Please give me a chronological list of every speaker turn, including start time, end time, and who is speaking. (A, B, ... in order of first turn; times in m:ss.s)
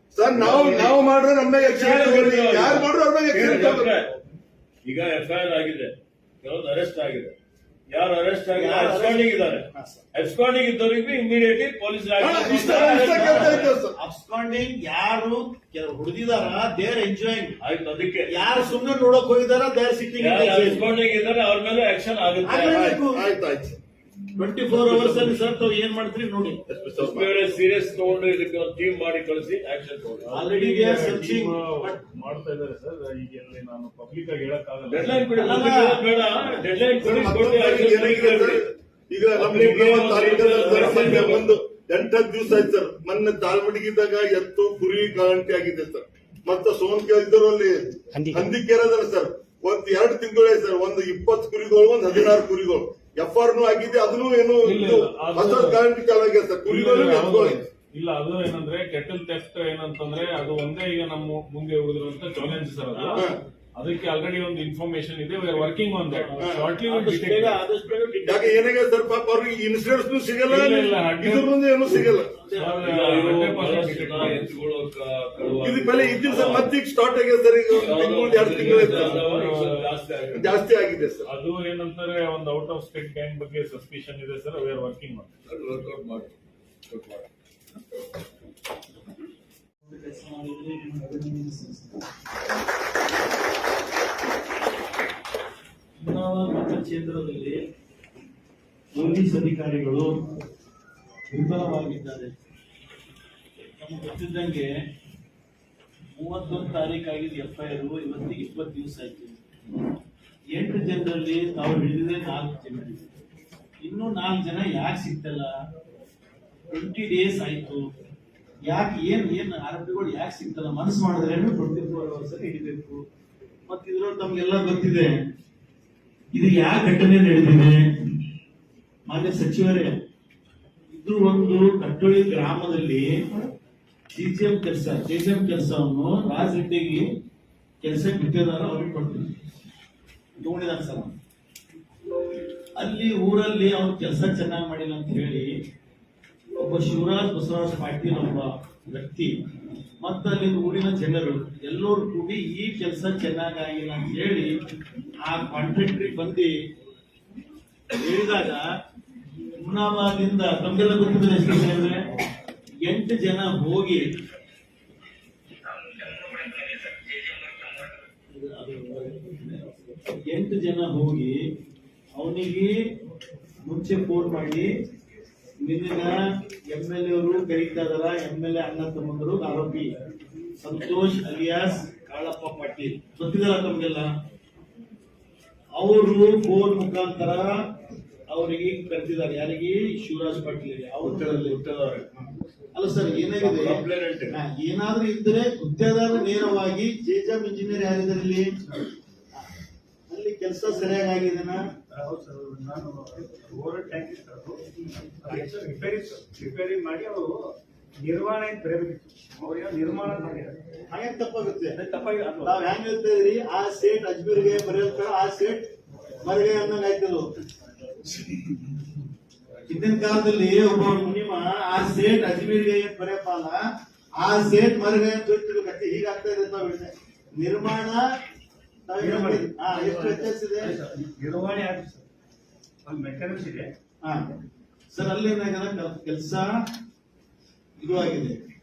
0:00.1-0:03.9 A
0:00.4-0:00.9 B
0:01.6-0:04.1 B
0:04.8-0:07.3 B
0:07.9-0:13.7 B
0:08.5-0:10.0 C
0:12.2-0:14.0 A
0:12.8-0:17.6 C
0:17.6-0:18.3 B
0:18.3-0:20.8 C
0:20.2-0:22.9 B
0:22.4-0:23.2 C
0:22.7-0:23.8 A
0:24.4-0:26.6 C
0:24.7-0:25.4 A
0:26.7-0:27.4 A
0:27.0-0:30.3 B
0:30.3-0:35.4 D
0:30.3-0:32.0 C
0:34.9-0:38.6 B
0:35.4-0:36.0 C
0:37.0-0:57.6 A
0:39.4-0:41.5 B
0:54.6-0:55.8 D
0:56.6-1:07.6 D
1:02.9-1:03.2 B
1:06.4-1:06.7 A
1:06.8-1:08.6 C
1:08.2-1:12.3 A
1:10.5-1:11.5 D
1:12.3-1:12.8 C
1:12.5-1:14.5 D
1:12.8-1:16.7 B
1:15.6-1:19.2 A
1:17.8-1:20.5 B
1:18.4-1:19.8 D
1:20.3-1:21.3 A
1:21.3-1:25.3 D
1:25.5-1:26.3 B
1:26.9-1:27.2 B
1:29.8-1:32.0 C
1:36.0-1:37.6 C
1:38.9-1:40.1 C
1:41.3-1:42.3 C
1:43.6-1:44.7 C
1:46.1-1:49.4 C
1:50.5-1:53.1 C
1:53.8-1:55.5 C
1:56.7-1:57.8 C
1:58.6-2:03.0 C
2:03.7-2:05.1 C
2:06.3-2:07.8 C
2:09.1-2:10.0 C
2:10.9-2:13.2 C
2:14.1-2:17.1 C
2:17.8-2:19.3 C
2:20.4-2:21.1 C
2:22.8-2:25.5 C
2:26.6-2:29.3 C
2:30.0-2:34.5 C
2:35.2-2:36.5 C
2:37.9-2:38.6 C
2:39.6-2:42.0 C
2:42.8-2:44.0 C
2:48.3-2:51.4 C
2:52.2-2:52.7 C
2:53.6-2:54.7 C
2:55.6-2:56.2 C
2:56.7-2:59.9 C
3:00.6-3:04.1 C
3:05.8-3:07.6 C
3:08.3-3:11.6 C
3:11.0-3:12.1 B
3:12.2-3:18.6 C
3:13.2-3:14.4 B
3:20.1-3:21.6 C
3:21.9-3:24.6 E
3:25.2-3:30.6 E
3:30.9-3:31.8 C
3:31.8-3:32.6 E
3:32.4-3:35.7 C
3:36.2-3:37.3 C
3:39.7-3:43.6 C
3:44.2-3:48.0 C
3:48.8-3:50.8 C
3:49.0-3:52.0 E
3:52.8-3:53.7 E
3:54.9-3:56.5 C
3:57.8-3:58.4 C